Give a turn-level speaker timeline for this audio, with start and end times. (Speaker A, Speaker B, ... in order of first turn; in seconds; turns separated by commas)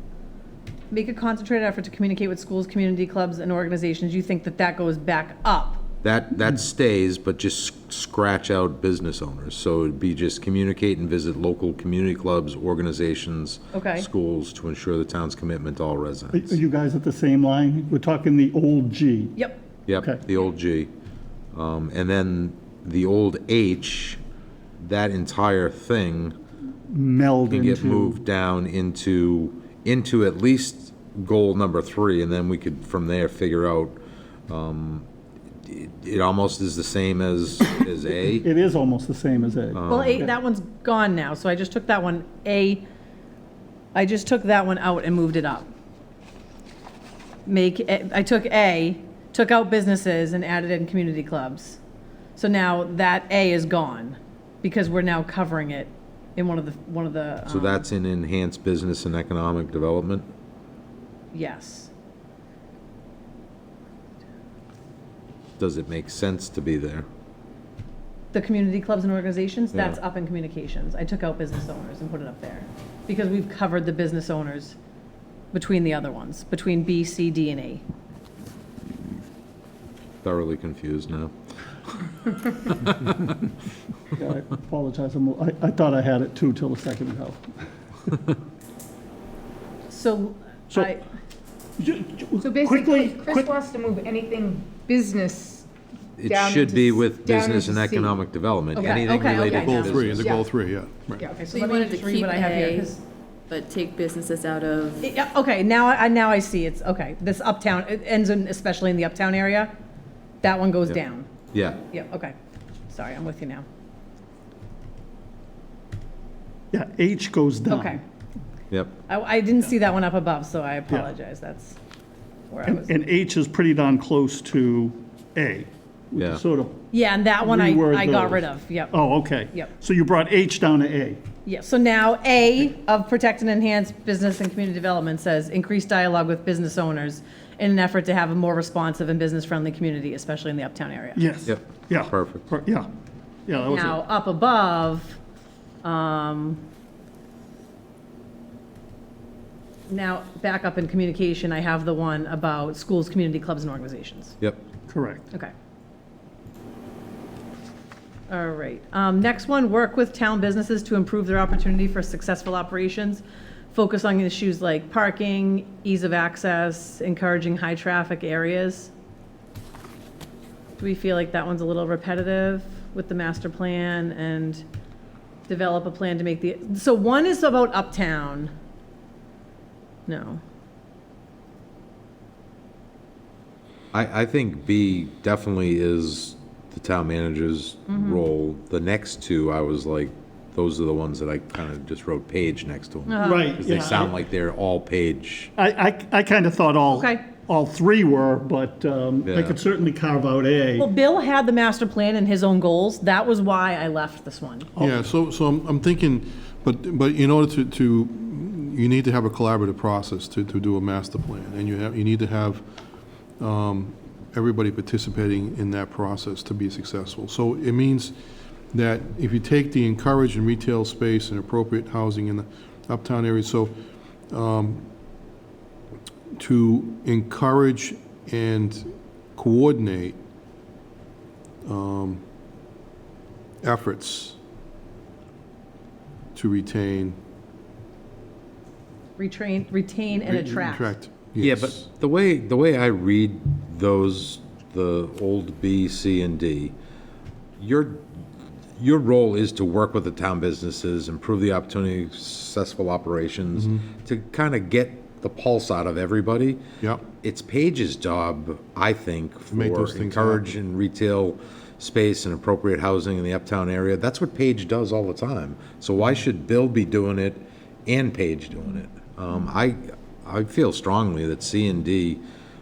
Speaker A: 0.9-5.8, Speaker B: 6.0-16.6, Speaker A: 13.7-14.1, Speaker C: 16.3-19.4, Speaker B: 19.9-20.9, Speaker B: 21.5-24.2, Speaker B: 24.8-26.4, Speaker C: 26.9-28.2, Speaker B: 27.5-34.0, Speaker B: 34.5-35.1, Speaker B: 35.7-38.5, Speaker C: 38.4-40.3, Speaker B: 39.7-40.3, Speaker A: 39.9-42.9, Speaker A: 43.9-45.7, Speaker A: 47.5-51.8, Speaker A: 52.4-57.9, Speaker B: 57.5-60.3, Speaker A: 61.3-61.9, Speaker B: 65.6-67.1, Speaker A: 68.3-74.8, Speaker B: 69.7-70.0, Speaker A: 75.5-77.8, Speaker B: 80.2-81.3, Speaker C: 84.2-87.4, Speaker A: 89.9-91.0, Speaker C: 91.8-93.5, Speaker D: 92.4-95.7, Speaker B: 96.2-100.4, Speaker D: 96.2-98.2, Speaker A: 98.8-100.0, Speaker E: 99.3-101.3, Speaker D: 100.1-100.5, Speaker A: 101.2-103.0, Speaker F: 101.4-102.9, Speaker F: 103.5-105.1, Speaker A: 105.0-109.7, Speaker A: 110.4-111.3, Speaker B: 111.5-111.8, Speaker A: 111.9-112.4, Speaker A: 112.9-113.7, Speaker C: 116.7-118.0, Speaker A: 117.7-118.0, Speaker B: 118.7-119.0, Speaker A: 119.1-121.8, Speaker A: 122.5-123.0, Speaker C: 122.7-126.8, Speaker B: 126.2-126.4, Speaker A: 126.9-129.7, Speaker C: 127.4-131.2, Speaker A: 131.4-141.3, Speaker C: 141.2-142.9, Speaker B: 141.5-142.5, Speaker C: 143.5-144.0, Speaker A: 143.6-145.2, Speaker A: 145.8-146.6, Speaker A: 149.9-154.4, Speaker C: 154.9-155.3, Speaker A: 158.3-168.9, Speaker A: 170.8-174.7, Speaker A: 175.5-178.5, Speaker A: 180.1-180.4, Speaker B: 183.9-195.5, Speaker A: 187.9-188.2, Speaker A: 193.1-194.0, Speaker C: 193.2-194.2, Speaker C: 195.6-200.9, Speaker A: 196.9-197.2, Speaker B: 199.3-199.6, Speaker A: 200.8-204.7, Speaker E: 204.8-212.6, Speaker E: 213.4-218.2, Speaker E: 218.7-223.8, Speaker E: 224.3-224.9, Speaker E: 226.4-230.2, Speaker E: 231.7-232.2, Speaker E: 233.6-234.4, Speaker E: 236.3-237.2, Speaker A: 239.2-240.9, Speaker E: 240.2-241.8, Speaker B: 241.4-246.8, Speaker B: 247.6-248.1, Speaker B: 248.8-256.6, Speaker E: 253.6-253.9, Speaker E: 256.8-257.1, Speaker B: 257.2-272.2, Speaker E: 259.5-260.5